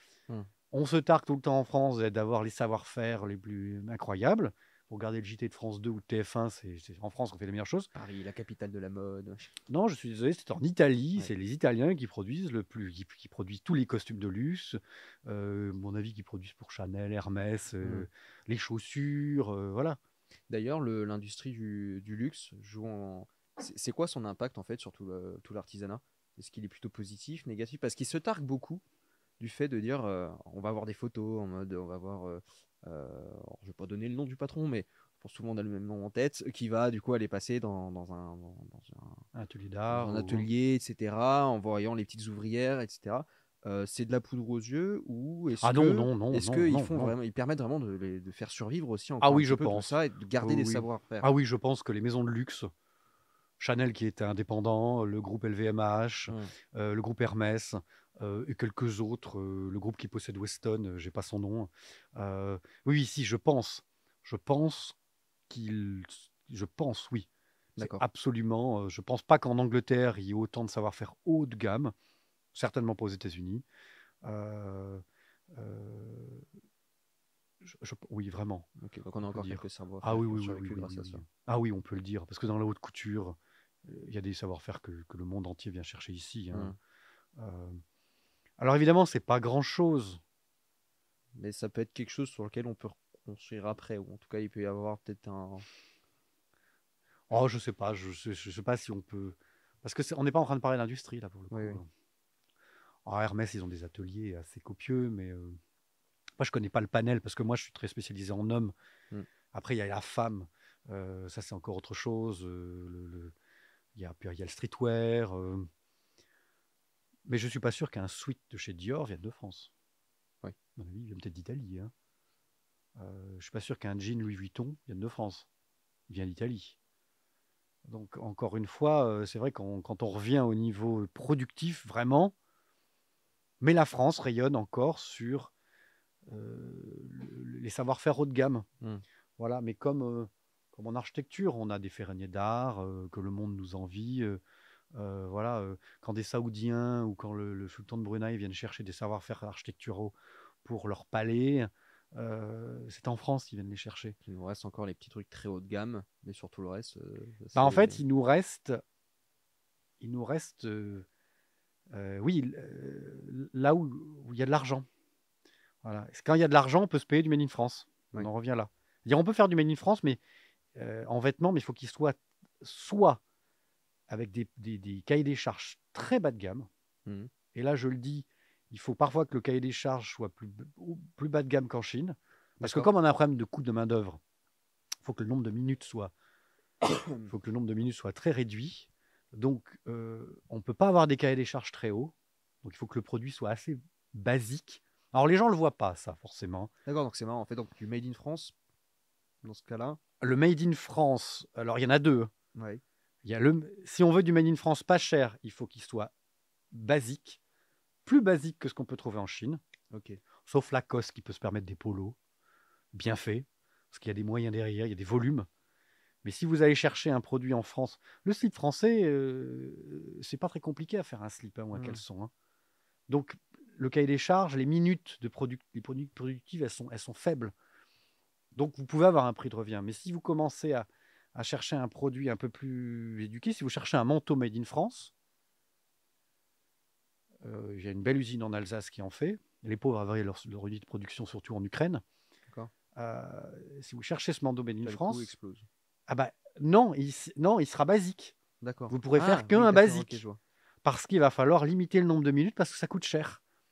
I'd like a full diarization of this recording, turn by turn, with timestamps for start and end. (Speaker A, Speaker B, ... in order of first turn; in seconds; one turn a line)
Speaker A: 0.7-7.9
Speaker B: 7.9-9.6
Speaker A: 9.7-20.0
Speaker B: 17.8-18.1
Speaker B: 20.5-28.8
Speaker B: 29.4-39.2
Speaker A: 39.3-40.5
Speaker B: 39.9-51.3
Speaker A: 45.6-47.1
Speaker A: 49.2-52.7
Speaker A: 53.6-65.0
Speaker A: 65.5-71.9
Speaker B: 67.8-68.0
Speaker A: 72.5-73.6
Speaker A: 74.2-76.5
Speaker A: 77.6-86.7
Speaker B: 78.8-81.2
Speaker A: 87.4-87.8
Speaker A: 88.6-90.2
Speaker B: 91.4-95.7
Speaker A: 97.3-101.9
Speaker B: 101.5-101.8
Speaker A: 103.0-105.6
Speaker A: 106.4-108.7
Speaker A: 109.5-113.3
Speaker A: 114.0-115.7
Speaker A: 117.2-119.7
Speaker A: 120.8-121.9
Speaker A: 123.0-125.5
Speaker A: 126.1-126.8
Speaker A: 127.9-132.3
Speaker A: 133.6-135.5
Speaker A: 136.3-138.7
Speaker A: 139.4-144.4
Speaker A: 144.9-154.2
Speaker B: 154.2-158.0
Speaker A: 157.5-158.8
Speaker A: 160.0-161.1
Speaker A: 161.9-164.9
Speaker A: 165.8-170.2
Speaker A: 170.8-173.2
Speaker A: 174.1-176.7
Speaker B: 177.1-177.3
Speaker A: 177.5-184.2
Speaker B: 182.6-182.9
Speaker A: 185.0-186.1
Speaker B: 186.8-187.3
Speaker A: 187.2-192.1
Speaker A: 192.6-196.7
Speaker B: 196.9-198.5
Speaker B: 199.4-200.0
Speaker A: 200.2-202.3
Speaker B: 202.5-202.8
Speaker A: 203.2-206.1
Speaker A: 206.7-207.4
Speaker A: 208.1-209.6
Speaker B: 209.9-210.2
Speaker A: 210.4-212.2
Speaker A: 212.9-215.5
Speaker A: 216.2-222.3
Speaker B: 221.7-222.0
Speaker A: 223.1-227.5
Speaker A: 228.5-235.1
Speaker A: 237.4-242.0
Speaker A: 242.9-245.3
Speaker B: 244.8-245.7
Speaker A: 246.1-248.3
Speaker B: 248.6-250.4
Speaker A: 248.9-250.2
Speaker A: 250.8-253.4